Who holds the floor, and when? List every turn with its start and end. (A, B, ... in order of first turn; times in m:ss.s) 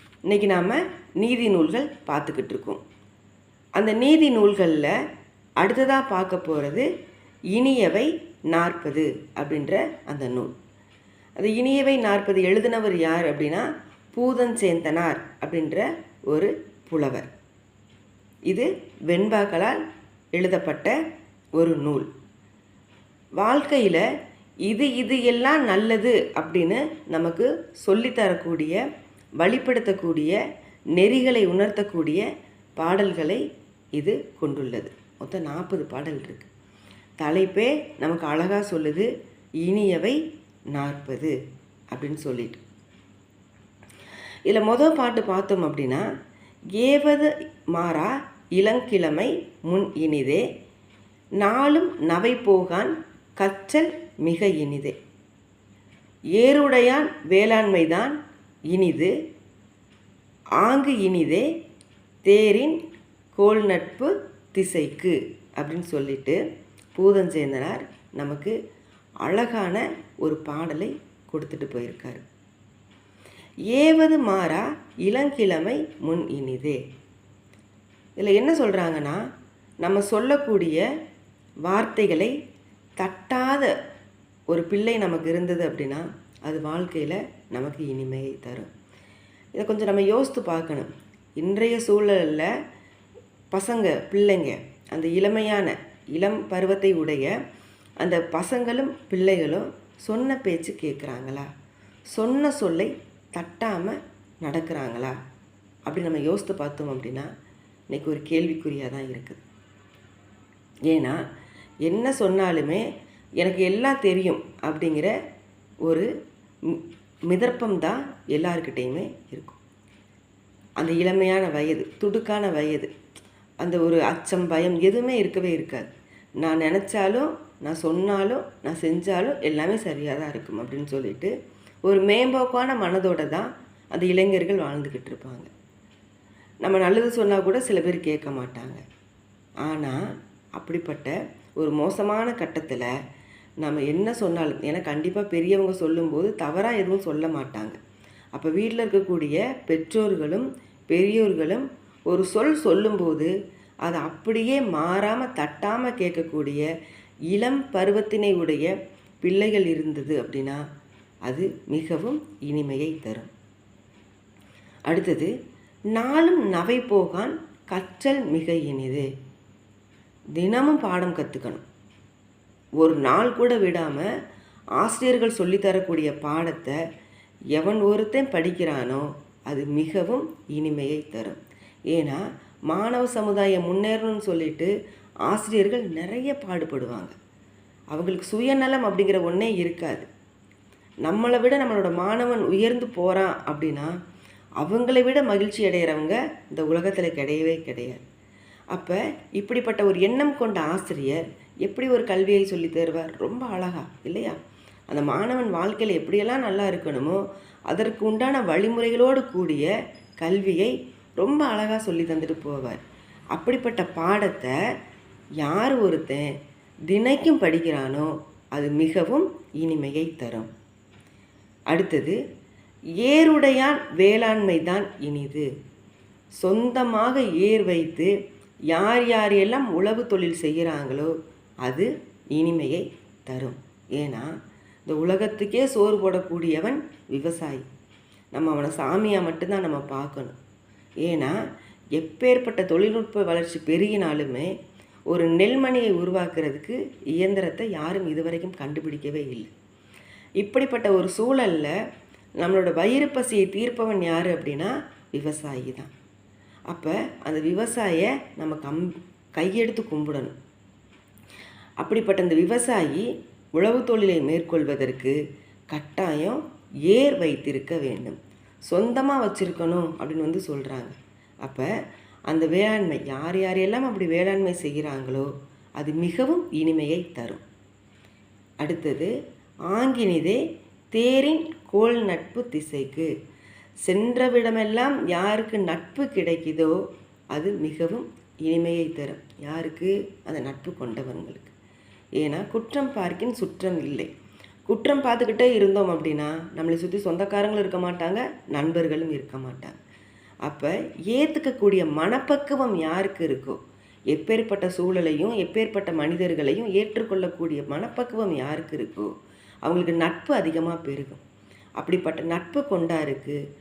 0:00.3-0:02.8 A
0:03.8-0:04.9 A
0:05.6-0:06.9 A
0:07.5-0:10.6 A
0:11.4-0:17.3 A
0:18.5-0:19.8 A
0:20.3-0:21.0 A
0:21.6-0:22.1 A
0:23.4-0:24.0 A
0:24.6-0:28.8 A
0:29.4-0:30.4 A
0:31.0-0:32.2 A
0:32.8-0:33.4 A
0:34.0-0:36.5 A
0:37.2-0:39.1 A
0:39.6-0:40.2 A
0:40.7-0:41.3 A
0:41.9-0:42.6 A
0:44.5-0:46.0 A
0:46.8-0:50.4 A
0:51.4-0:55.0 A
0:56.4-0:58.2 A
0:58.7-0:59.1 A
1:00.6-1:01.5 A
1:02.2-1:02.8 A
1:03.3-1:06.4 A
1:06.9-1:08.5 A
1:09.2-1:12.2 A
1:13.7-1:16.8 A
1:18.2-1:19.2 A
1:19.8-1:20.8 A
1:21.7-1:22.3 A
1:23.0-1:23.7 A
1:24.5-1:28.7 A
1:29.5-1:32.5 A
1:33.5-1:37.3 A
1:38.0-1:41.5 A
1:42.1-1:45.1 A
1:45.8-1:47.3 A
1:47.9-1:49.4 A
1:50.9-1:51.2 A
1:51.8-1:52.8 A
1:53.4-1:55.1 A
1:56.6-1:59.6 A
2:00.8-2:02.9 A
2:03.6-2:05.9 A
2:06.4-2:11.3 A
2:11.8-2:15.5 A
2:16.6-2:18.8 A
2:19.6-2:20.0 A
2:20.6-2:22.9 A
2:23.6-2:27.8 A
2:28.3-2:33.3 A
2:33.8-2:36.6 A
2:37.3-2:40.6 A
2:41.3-2:43.3 A
2:44.9-2:45.3 A
2:45.9-2:49.1 A
2:50.4-2:51.6 A
2:52.8-2:54.1 A
2:54.8-2:56.8 A
2:57.5-3:04.7 A
3:05.3-3:07.1 A
3:07.9-3:10.1 A
3:11.0-3:13.9 A
3:14.6-3:18.0 A
3:18.7-3:32.8 A
3:33.3-3:34.5 A
3:35.4-3:36.3 A
3:36.9-3:40.5 A
3:41.7-3:42.2 A
3:43.0-3:45.5 A
3:46.4-3:48.1 A
3:48.7-3:54.3 A
3:54.9-3:57.6 A
3:58.3-4:00.4 A
4:01.0-4:01.4 A
4:02.0-4:04.5 A
4:05.1-4:09.5 A
4:10.4-4:11.7 A
4:12.4-4:15.9 A
4:16.7-4:20.3 A
4:21.8-4:25.2 A
4:25.7-4:28.2 A
4:28.7-4:31.7 A
4:32.3-4:37.4 A
4:38.6-4:39.1 A
4:39.7-4:40.4 A
4:40.9-4:43.1 A
4:43.8-4:46.8 A
4:47.3-4:51.5 A
4:52.2-4:54.1 A
4:54.7-4:59.8 A
5:00.4-5:03.6 A
5:04.1-5:09.1 A
5:09.6-5:11.2 A
5:11.8-5:13.4 A